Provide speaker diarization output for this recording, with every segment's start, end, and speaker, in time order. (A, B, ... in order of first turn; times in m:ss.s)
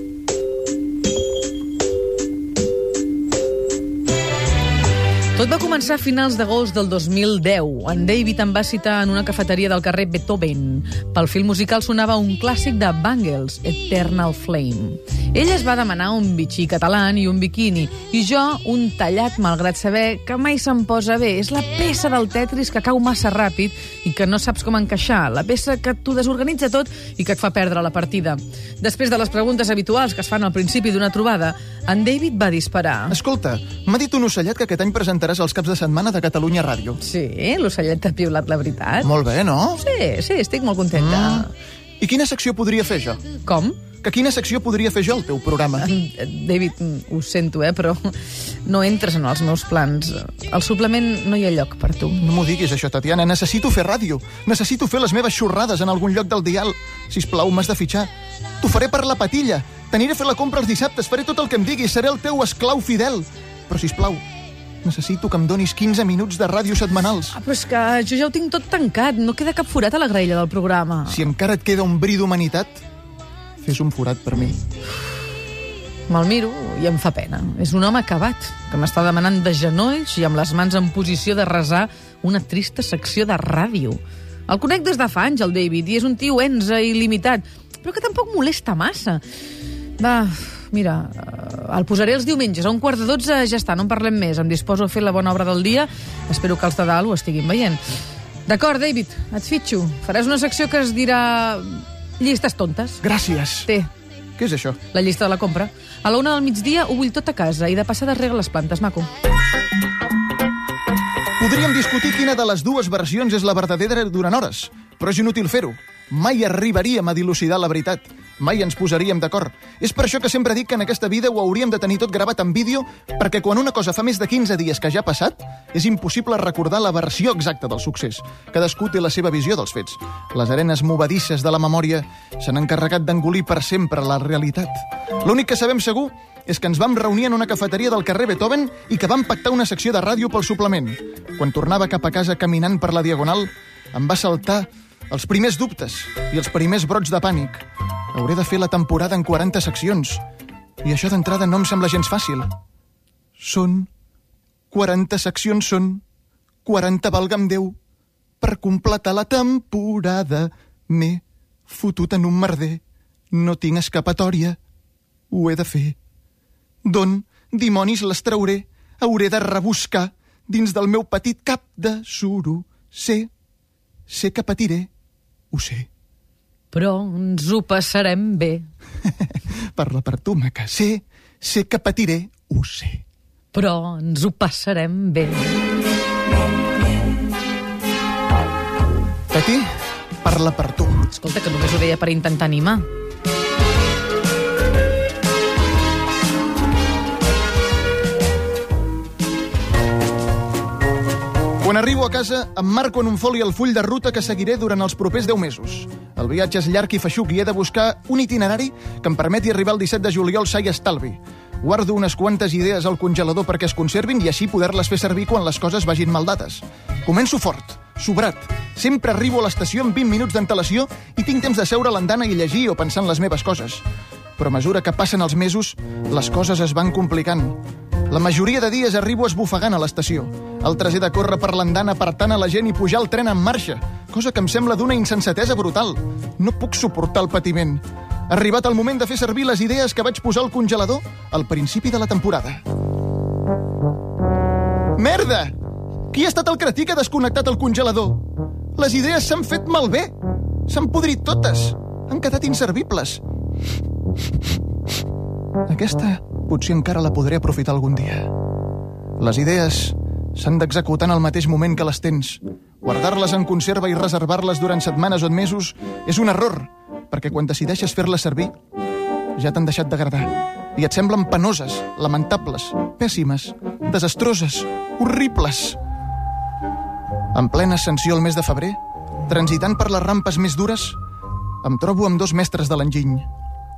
0:05.3-0:33.2 A
0:33.1-0:37.0 B
0:37.0-0:39.1 A
0:39.0-0:39.8 B
0:39.8-0:41.5 A
0:40.9-0:41.5 B
0:42.0-0:43.2 B
0:43.4-0:43.8 A
0:44.0-0:45.9 B
0:45.8-0:52.2 A
0:52.2-0:58.1 B
0:58.6-1:04.2 B
1:04.8-1:07.4 B
1:07.3-1:11.2 A
1:11.1-1:12.8 B
1:13.6-1:14.6 B
1:16.1-1:29.2 A
1:30.0-1:37.8 A
1:38.4-1:43.0 A
1:43.0-1:43.7 B
1:44.4-1:44.8 B
1:44.9-1:49.1 A
1:51.4-2:30.2 B
2:30.8-2:32.5 B
2:33.4-2:33.9 B
2:34.7-2:36.0 B
2:36.6-2:37.7 B
2:38.4-2:44.6 B
2:45.3-2:46.0 B
2:46.8-2:53.3 B
2:54.1-2:54.9 B
2:55.5-2:55.9 B
2:56.7-2:58.7 A
2:59.1-3:03.0 B
3:03.5-3:05.6 A
3:09.3-3:11.1 B
3:11.1-3:12.8 A
3:21.6-3:43.8 B
3:44.4-4:02.6 B
4:05.0-4:05.5 B
4:06.1-4:08.2 B
4:08.8-4:10.1 B
4:10.7-4:13.2 B
4:15.6-4:18.3 B
4:19.2-4:28.5 B
4:29.4-4:35.8 B
4:37.3-4:41.0 B
4:41.6-4:43.3 B